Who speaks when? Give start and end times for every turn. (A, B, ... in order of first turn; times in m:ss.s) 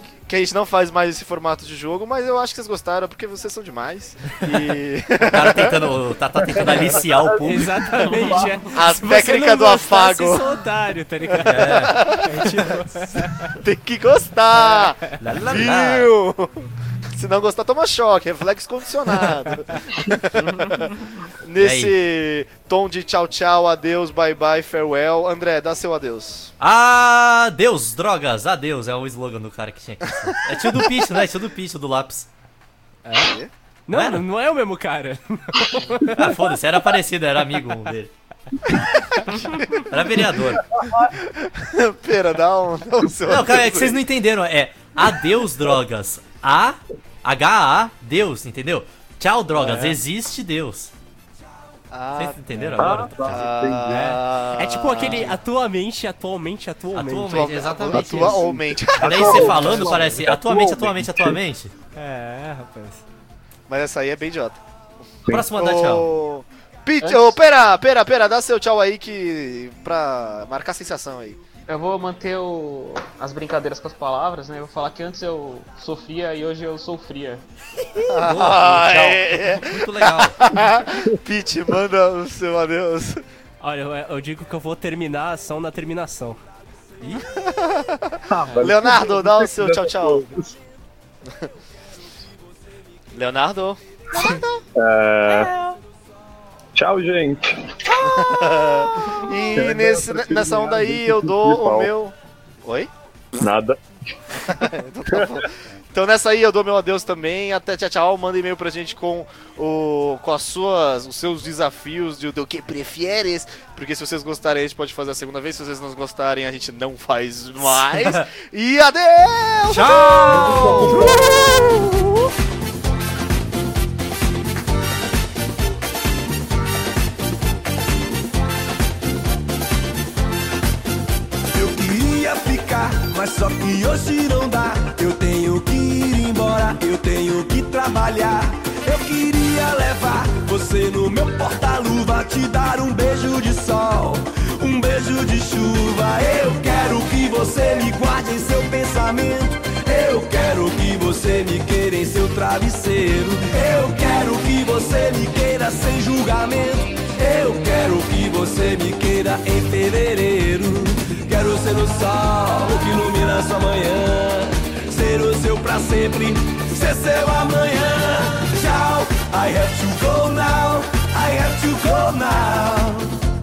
0:00.3-0:05.8 A
0:05.3-0:08.0 B
0:06.6-0:08.3 C
0:07.4-0:13.6 D
0:08.2-0:08.5 E
0:08.7-0:10.5 A
0:11.4-0:12.0 B
0:11.6-0:12.7 A
0:13.6-0:26.5 A
0:14.6-0:15.2 D
0:15.2-0:16.1 B
0:21.6-0:21.9 B
0:26.6-0:32.3 B
0:33.0-0:33.3 D
0:33.1-0:33.5 A
0:33.9-0:36.4 D
0:33.9-0:34.2 B
0:36.1-0:38.1 B
0:39.2-0:40.7 B
0:39.4-0:39.8 A
0:40.8-0:41.1 C
0:40.9-0:44.0 A
0:43.2-0:50.9 B
0:49.5-0:50.0 D
0:51.9-0:52.4 A
0:52.2-0:53.4 B
0:52.8-0:54.2 C
0:53.2-0:55.4 A
0:53.9-0:57.6 D
0:56.9-0:58.4 B
0:57.3-0:59.9 A
0:57.9-1:01.4 C
0:59.0-1:01.7 B
1:01.9-1:03.0 D
1:03.7-1:04.6 A
1:05.3-1:06.1 B
1:05.4-1:11.4 A
1:07.0-1:07.4 E
1:11.7-1:17.4 E
1:18.0-1:20.4 B
1:18.1-1:23.2 A
1:23.6-1:26.4 D
1:27.1-1:30.2 A
1:28.3-1:30.6 C
1:33.1-1:34.6 A
1:34.7-1:35.5 C
1:36.7-1:38.5 C
1:38.0-1:42.9 A
1:39.4-1:41.9 C
1:43.4-1:45.3 C
1:44.4-2:02.3 A
1:57.6-1:58.3 B
1:59.7-2:01.2 B
2:00.2-2:01.4 C
2:11.5-2:53.2 F